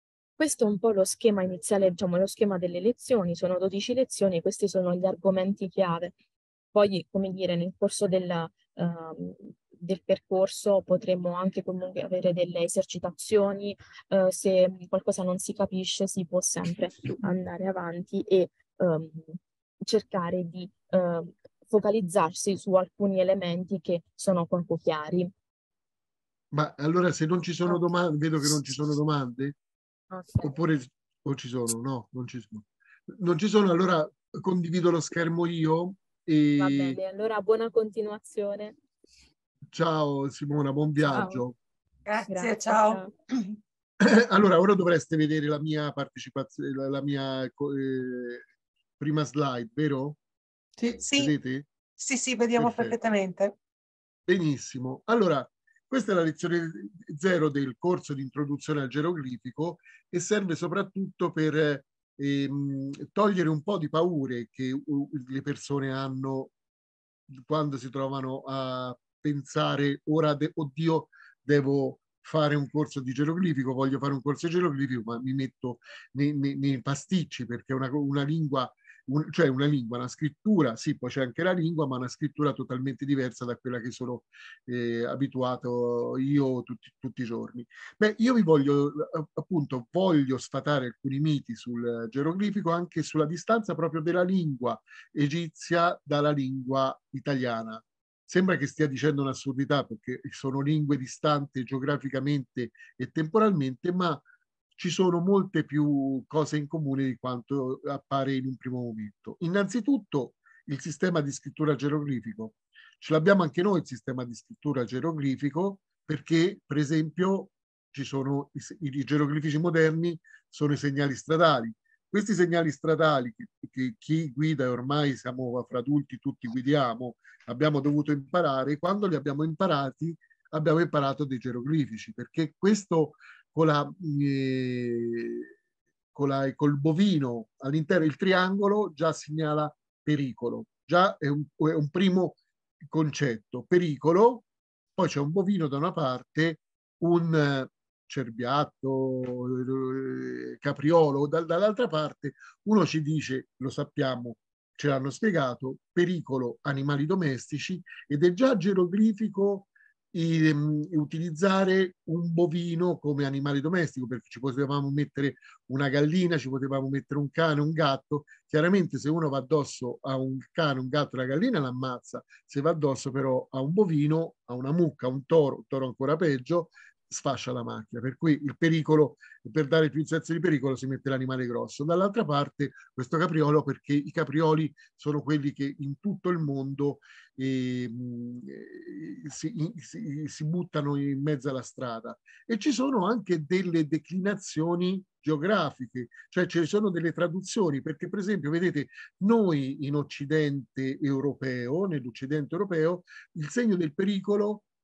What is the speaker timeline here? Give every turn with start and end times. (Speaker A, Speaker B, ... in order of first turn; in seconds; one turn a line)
Speaker A: 0.4-6.1
Speaker A: 6.7-25.3
Speaker B: 26.5-29.6
Speaker A: 30.1-30.6
Speaker B: 30.4-37.0
Speaker A: 36.6-38.8
Speaker B: 39.7-41.6
Speaker A: 41.1-41.4
Speaker C: 42.1-43.5
Speaker A: 42.3-43.1
Speaker B: 44.0-48.4
Speaker B: 49.0-50.2
Speaker C: 50.8-51.3
Speaker B: 51.1-51.7
Speaker C: 52.0-53.5
Speaker B: 52.5-53.0
Speaker B: 54.3-66.5
Speaker B: 67.3-104.2
Speaker B: 104.8-135.5
Speaker B: 136.1-144.4
Speaker B: 145.0-204.7